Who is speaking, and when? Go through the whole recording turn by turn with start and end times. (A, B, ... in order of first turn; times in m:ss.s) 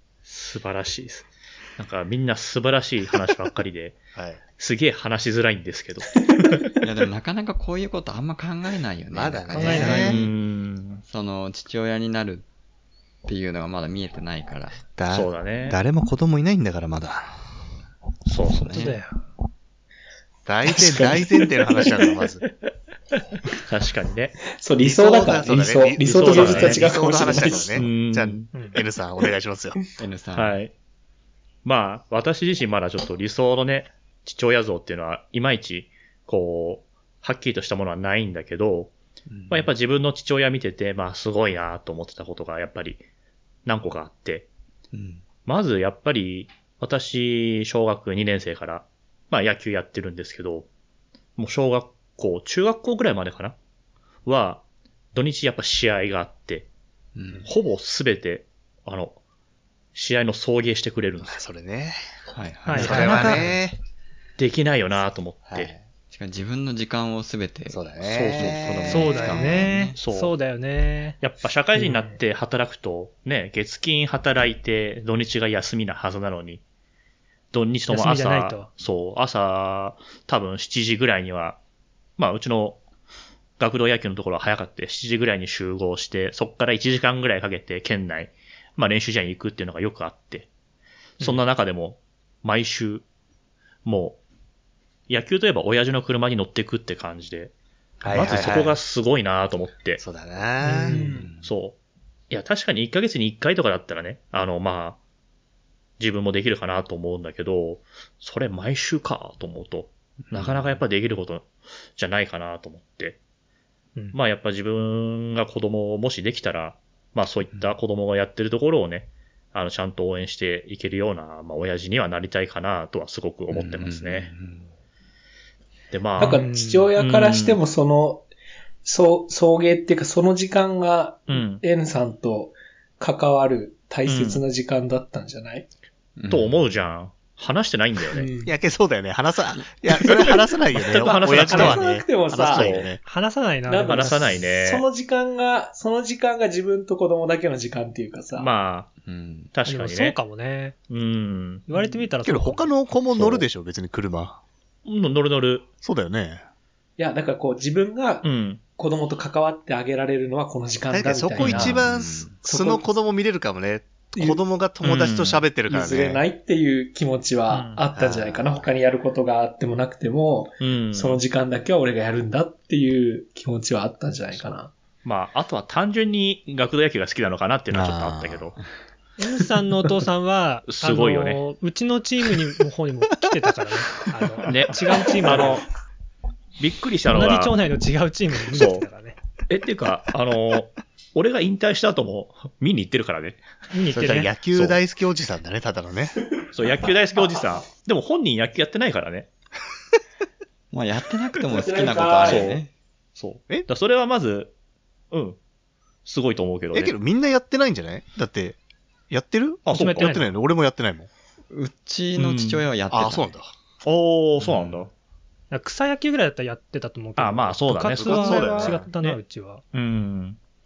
0:00.3-0:04.0 A
0:04.1-0:04.4 B
0:04.6-0:06.1 A
0:06.8-0:10.4 C
0:09.1-0:10.2 B
0:09.5-0:10.1 D
0:09.7-0:11.0 A
0:11.0-0:12.4 C
0:13.3-0:14.9 C
0:15.0-0:17.4 B
0:15.1-0:15.8 A
0:18.3-0:18.9 A
0:18.5-0:19.0 C
0:18.8-0:19.2 D
0:20.5-0:22.4 B
0:20.7-0:22.1 E
0:23.6-0:24.4 A
0:24.5-0:27.8 E
0:24.8-0:29.8 B
0:26.0-0:28.5 A
0:30.0-0:30.6 C
0:30.4-0:30.7 A
0:31.6-0:38.9 A
0:39.3-0:39.7 C
0:39.5-0:43.0 A
0:43.6-0:44.5 A
0:44.9-0:45.2 C
0:45.4-0:50.7 A
0:51.4-0:53.6 A
0:54.2-0:56.7 A
0:57.1-0:57.5 C
0:57.4-0:59.2 A
0:59.9-1:01.4 A
1:01.2-1:02.0 B
1:02.3-1:03.6 C
1:02.7-1:03.5 D
1:02.8-1:03.8 B
1:02.8-1:03.4 A
1:04.4-1:05.7 A
1:05.5-1:05.8 B
1:06.1-1:10.0 C
1:07.7-1:09.0 B
1:08.0-1:10.4 A
1:08.9-1:11.2 D
1:11.2-1:16.6 A
1:11.8-1:12.2 E
1:17.5-1:21.6 A
1:17.9-1:18.7 D
1:22.2-1:22.8 A
1:23.6-1:30.5 A
1:31.2-1:33.0 A
1:33.8-1:34.2 A
1:35.1-1:37.5 A
1:38.0-1:38.8 B
1:38.1-1:40.0 A
1:40.0-1:41.0 B
1:40.6-1:41.1 D
1:40.8-1:41.3 E
1:41.1-1:41.5 C
1:41.4-1:41.8 A
1:42.3-1:45.0 A
1:46.0-1:53.2 A
1:50.3-1:50.8 C
1:54.1-2:04.3 A
2:03.5-2:04.7 C
2:05.9-2:07.6 A
2:06.2-2:08.3 E
2:06.2-2:06.9 D
2:08.8-2:15.7 E
2:11.3-2:11.6 A
2:14.1-2:14.4 A
2:16.2-2:16.7 C
2:16.3-2:18.3 A
2:18.1-2:18.5 E
2:18.4-2:23.0 B
2:20.1-2:20.4 E
2:20.9-2:22.7 E
2:21.0-2:21.8 A
2:22.4-2:22.9 A
2:23.0-2:24.2 D
2:23.7-2:28.5 E
2:23.8-2:24.8 A
2:28.4-2:28.9 A
2:29.0-2:29.5 C
2:29.5-2:30.2 A
2:29.6-2:30.8 D
2:30.9-2:31.7 A
2:31.7-2:32.7 D
2:32.2-2:34.4 B
2:33.2-2:33.4 C
2:34.8-2:35.7 A
2:35.8-2:36.4 B
2:37.0-2:41.8 E
2:38.2-2:38.6 A
2:40.9-2:46.2 B
2:41.4-2:42.4 C
2:42.5-2:42.9 E
2:44.2-2:44.4 E
2:44.8-2:45.5 A
2:45.7-2:54.7 E
2:47.5-2:47.9 A
2:48.0-2:48.4 B
2:48.1-2:48.4 C
2:50.6-2:51.2 A
2:55.0-2:58.6 A
2:57.7-2:58.5 B
2:59.2-3:05.6 D
3:00.7-3:01.4 A
3:04.4-3:05.7 A
3:06.6-3:07.6 A
3:07.1-3:09.2 D
3:08.5-3:08.8 A
3:09.5-3:13.4 A
3:13.7-3:14.3 D
3:13.9-3:16.2 B
3:14.5-3:14.8 A
3:16.5-3:19.3 A
3:20.7-3:22.7 C
3:21.5-3:22.5 E
3:22.2-3:22.6 A
3:23.2-3:24.5 A
3:25.1-3:25.4 A
3:26.0-3:27.0 A
3:26.7-3:28.6 B
3:29.1-3:31.1 B
3:29.6-3:30.2 A
3:29.7-3:30.3 D
3:31.5-3:33.4 C
3:32.2-3:32.6 A
3:32.9-3:33.5 B
3:33.8-3:34.9 A
3:34.4-3:34.9 C
3:35.5-3:39.6 D
3:37.2-3:39.2 A
3:38.0-3:38.9 B
3:39.7-3:40.4 A